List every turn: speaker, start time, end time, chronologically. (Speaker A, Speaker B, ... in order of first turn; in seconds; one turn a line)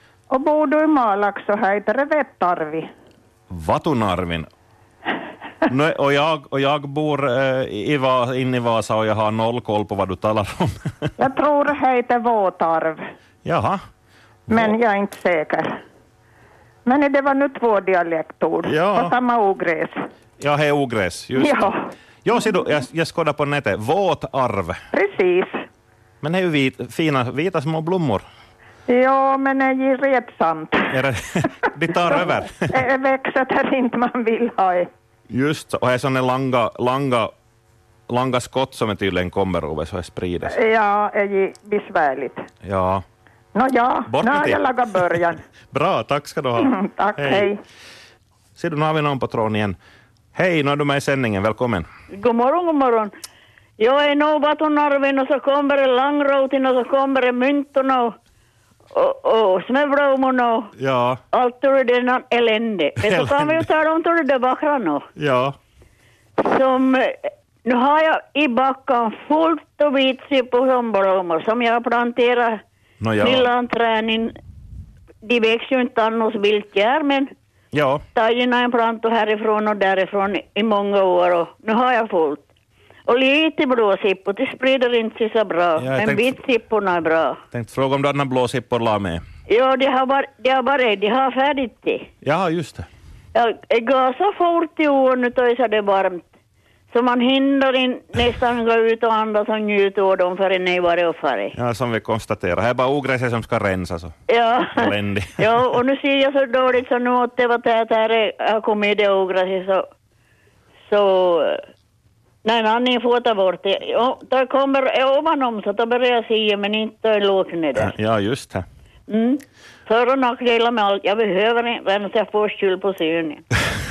Speaker A: 0.3-2.9
Speaker B: 3.5-4.5
Speaker B: 5.7-11.1
Speaker A: 11.2-13.0
Speaker B: 13.4-13.8
Speaker B: 14.5-14.8
Speaker A: 14.5-15.7
Speaker A: 16.9-19.9
Speaker B: 18.6-19.2
Speaker B: 20.4-24.8
Speaker A: 21.4-21.8
Speaker A: 24.9-25.6
Speaker B: 26.2-28.2
Speaker A: 28.9-31.0
Speaker B: 30.9-32.8
Speaker A: 32.7-34.9
Speaker B: 35.3-37.3
Speaker B: 38.1-40.6
Speaker A: 40.5-42.5
Speaker B: 42.6-43.0
Speaker A: 43.5-45.4
Speaker B: 44.1-44.7
Speaker B: 45.7-47.5
Speaker A: 46.6-47.6
Speaker B: 48.6-49.8
Speaker B: 50.4-51.9
Speaker C: 52.1-53.1
Speaker C: 53.8-58.1
Speaker C: 58.9-60.7
Speaker B: 60.8-61.2
Speaker C: 61.3-65.1
Speaker B: 63.0-63.7
Speaker B: 65.2-65.5
Speaker C: 66.4-72.6
Speaker B: 73.0-73.5
Speaker C: 73.2-74.3
Speaker C: 75.2-77.3
Speaker B: 77.7-78.0
Speaker C: 78.2-82.4
Speaker C: 83.1-87.4
Speaker B: 85.8-86.4
Speaker B: 87.5-89.2
Speaker C: 89.5-92.1
Speaker B: 92.2-92.9
Speaker C: 93.3-96.3
Speaker C: 96.9-101.5
Speaker B: 101.5-104.2
Speaker C: 104.3-109.8
Speaker B: 104.8-105.8
Speaker C: 110.9-111.6
Speaker C: 112.5-117.9
Speaker B: 117.8-118.6
Speaker C: 119.1-123.5